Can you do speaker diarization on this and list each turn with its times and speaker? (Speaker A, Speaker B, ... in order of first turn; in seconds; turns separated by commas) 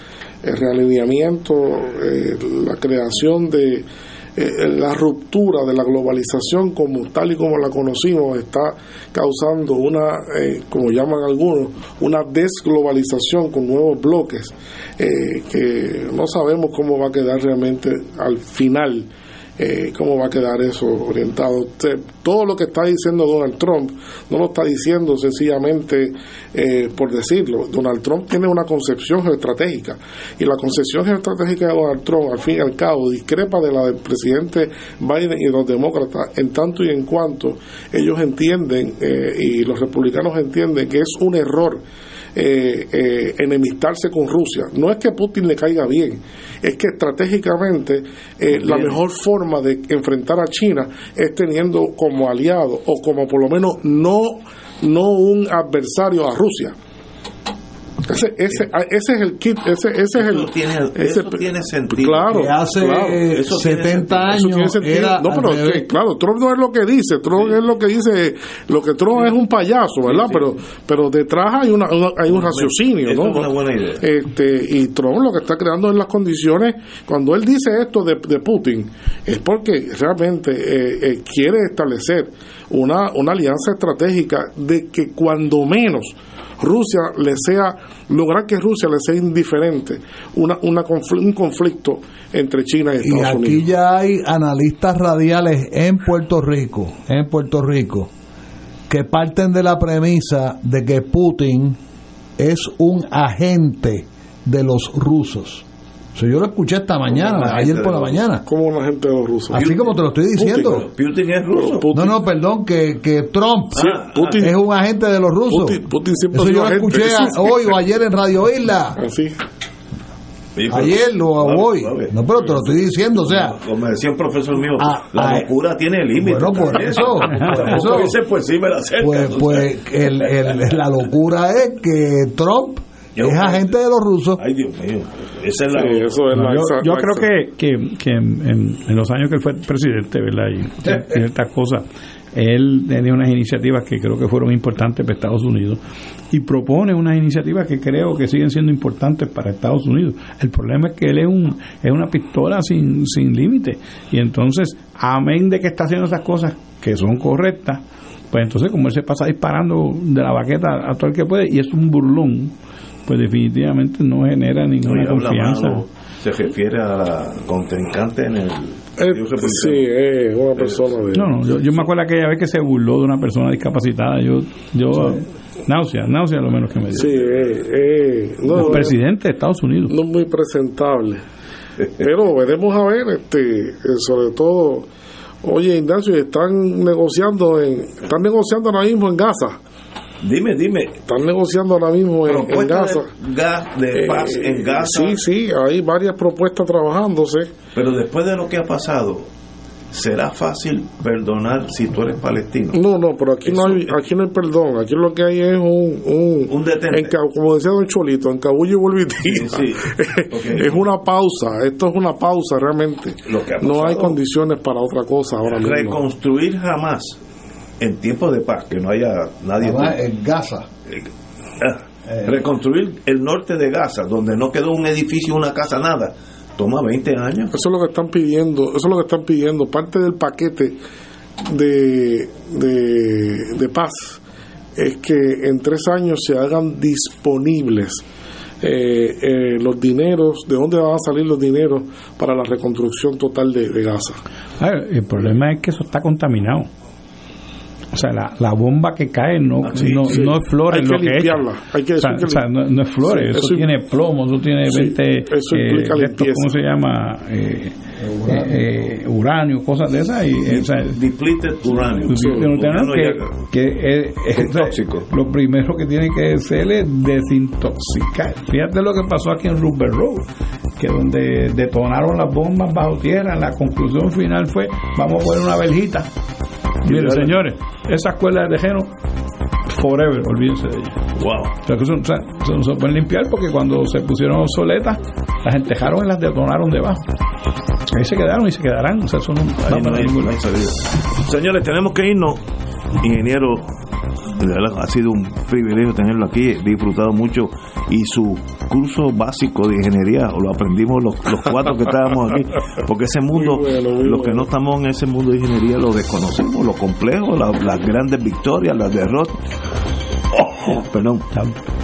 Speaker A: 0.4-41.8, Speaker A: 42.3-56.7, Speaker B: 48.6-49.0, Speaker A: 58.1-63.2, Speaker B: 60.1-62.6, Speaker C: 62.3-65.9, Speaker B: 63.2-64.3, Speaker A: 64.3-93.7, Speaker B: 70.0-70.5, Speaker B: 72.3-74.0, Speaker C: 93.0-98.1, Speaker C: 98.9-101.8, Speaker C: 102.4-108.4, Speaker B: 107.1-108.2, Speaker A: 108.5-109.6, Speaker C: 109.5-110.8, Speaker B: 109.5-111.9, Speaker A: 110.4-110.7, Speaker A: 111.5-112.2, Speaker C: 111.9-119.0, Speaker B: 113.8-114.4, Speaker A: 113.8-114.5, Speaker A: 115.5-117.6, Speaker A: 119.0-119.4, Speaker B: 120.5-129.7, Speaker C: 120.7-123.6, Speaker C: 124.8-125.5, Speaker C: 126.2-128.2, Speaker D: 127.3-127.9, Speaker C: 129.0-134.4, Speaker B: 133.2-133.7, Speaker B: 134.4-136.2, Speaker A: 135.7-137.3, Speaker D: 136.3-145.8, Speaker D: 146.3-157.8, Speaker D: 158.3-162.5, Speaker D: 163.1-165.8, Speaker B: 164.8-169.9, Speaker A: 169.0-171.3, Speaker B: 170.6-171.0, Speaker D: 171.1-177.1, Speaker A: 176.9-179.0, Speaker D: 178.5-179.9, Speaker A: 179.9-181.2, Speaker A: 182.0-184.9, Speaker A: 185.4-189.6, Speaker B: 190.2-191.0, Speaker A: 191.1-193.1, Speaker B: 192.2-195.2, Speaker A: 193.9-197.5, Speaker B: 197.7-199.3, Speaker B: 199.9-202.8, Speaker A: 202.7-216.0, Speaker B: 203.4-203.9, Speaker B: 206.5-207.1, Speaker B: 209.2-210.9, Speaker B: 213.2-214.2, Speaker B: 215.5-217.2, Speaker B: 217.8-220.0, Speaker C: 219.6-220.7, Speaker B: 221.6-227.5, Speaker C: 222.1-222.4, Speaker A: 227.5-230.8, Speaker A: 231.4-234.2, Speaker A: 234.8-238.0, Speaker A: 238.6-244.2, Speaker D: 244.6-246.7, Speaker D: 247.9-251.4, Speaker B: 249.6-250.3, Speaker A: 250.1-253.7, Speaker D: 252.0-261.0, Speaker A: 254.7-256.5, Speaker C: 258.1-258.5, Speaker B: 260.5-263.4, Speaker D: 262.1-270.2, Speaker A: 262.1-262.5, Speaker B: 264.3-265.1, Speaker D: 270.8-276.1, Speaker B: 276.8-277.4, Speaker D: 276.8-278.9, Speaker D: 279.7-281.0, Speaker B: 281.1-281.5, Speaker D: 281.6-287.0, Speaker D: 287.9-290.3, Speaker B: 289.6-292.4, Speaker B: 293.0-293.8, Speaker B: 294.4-309.4, Speaker A: 303.3-304.5, Speaker B: 310.3-311.2, Speaker D: 311.3-311.6